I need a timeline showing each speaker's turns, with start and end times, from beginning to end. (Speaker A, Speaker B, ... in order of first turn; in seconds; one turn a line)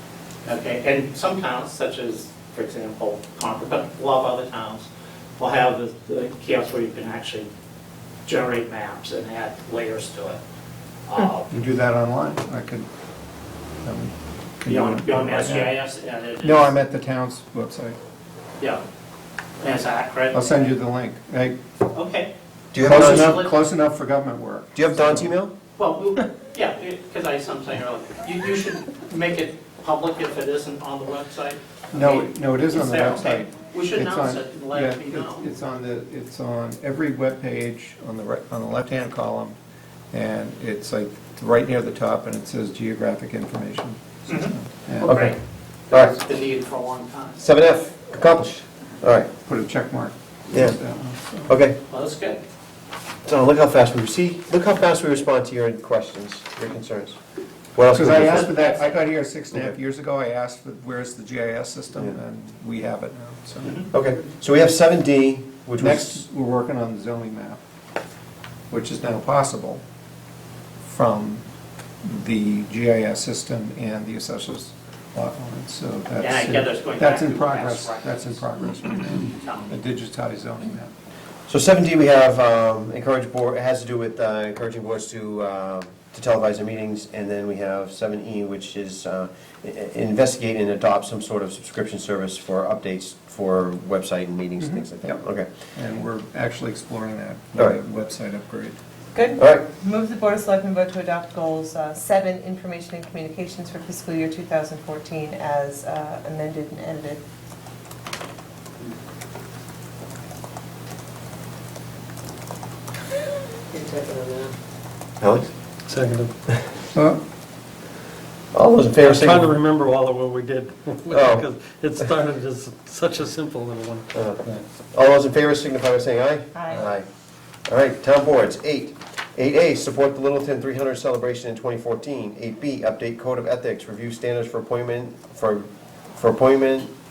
Speaker A: 0.4-7.5
Speaker A: 8.2-10.4
Speaker A: 11.1-11.5
Speaker B: 11.5-12.9
Speaker B: 13.8-15.7
Speaker A: 14.7-16.8
Speaker B: 16.4-18.0
Speaker A: 19.6-20.7
Speaker B: 20.3-21.6
Speaker A: 21.9-22.3
Speaker C: 22.7-23.4
Speaker B: 22.8-25.3
Speaker A: 22.9-23.5
Speaker C: 24.8-25.5
Speaker A: 25.8-35.4
Speaker B: 31.9-39.6
Speaker B: 40.1-45.3
Speaker A: 44.3-47.4
Speaker C: 45.0-45.3
Speaker C: 47.4-49.3
Speaker B: 49.4-51.6
Speaker C: 50.5-50.8
Speaker C: 51.5-51.8
Speaker A: 51.9-52.4
Speaker C: 53.2-57.2
Speaker C: 57.7-58.5
Speaker B: 57.9-63.8
Speaker A: 58.5-58.9
Speaker C: 63.9-66.2
Speaker B: 65.8-67.6
Speaker B: 68.7-69.8
Speaker B: 70.8-71.4
Speaker B: 72.0-80.9
Speaker A: 76.2-78.5
Speaker A: 79.2-79.7
Speaker C: 81.5-95.5
Speaker B: 94.6-98.8
Speaker D: 99.1-107.2
Speaker C: 99.4-99.7
Speaker D: 113.7-114.5
Speaker C: 115.2-115.5
Speaker E: 115.9-116.3
Speaker B: 116.9-117.2
Speaker C: 118.5-119.5
Speaker E: 119.0-124.6
Speaker C: 121.1-121.5
Speaker C: 124.1-127.0
Speaker D: 126.5-126.9
Speaker C: 127.7-136.9